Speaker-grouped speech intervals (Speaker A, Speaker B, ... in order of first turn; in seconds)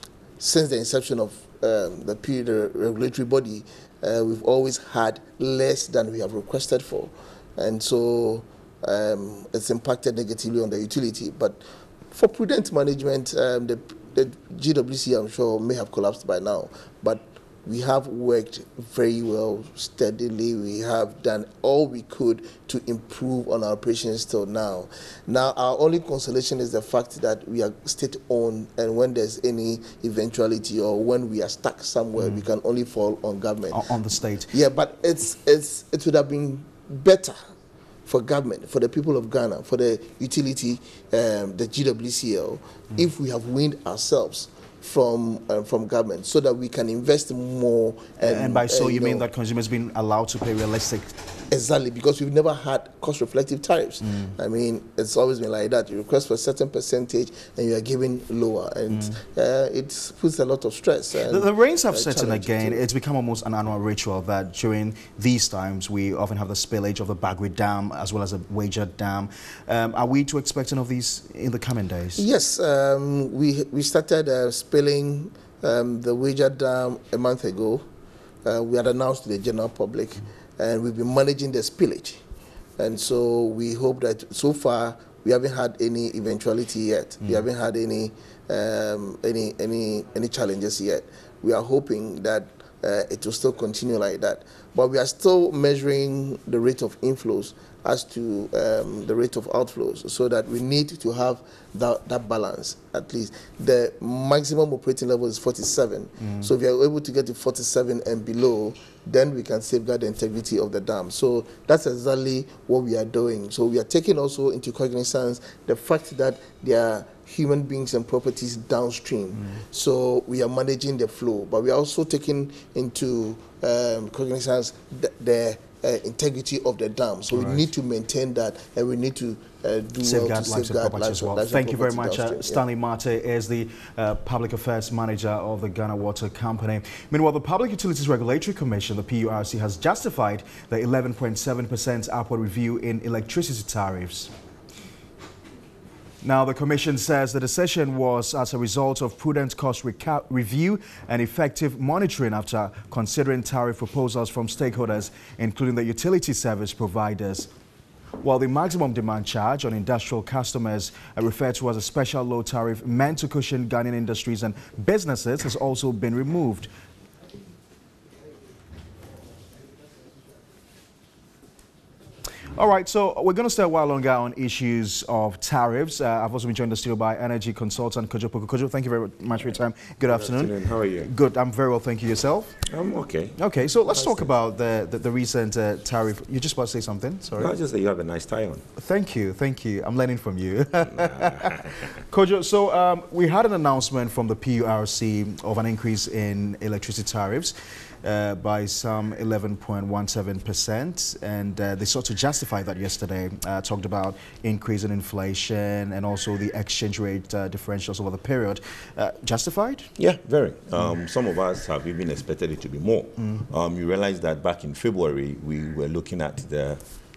Speaker A: 0.4-33.8, 34.5-37.4, 38.1-49.2, 51.5-62.8, 72.2-77.9, 78.5-82.2, 82.8-132.6
Speaker B: 32.2-32.4, 33.7-34.5, 48.2-51.2, 54.0-54.3, 58.9-59.2, 61.2-72.3, 106.2-106.5, 119.4-119.6, 127.3-127.7, 130.0-144.3, 146.2-157.5, 158.2-166.7, 172.5-182.6, 183.4-187.5, 188.8-209.9
Speaker C: 180.0-181.1, 182.7-183.4, 183.9-184.3, 187.4-188.7, 191.0-191.8, 210.0-216.8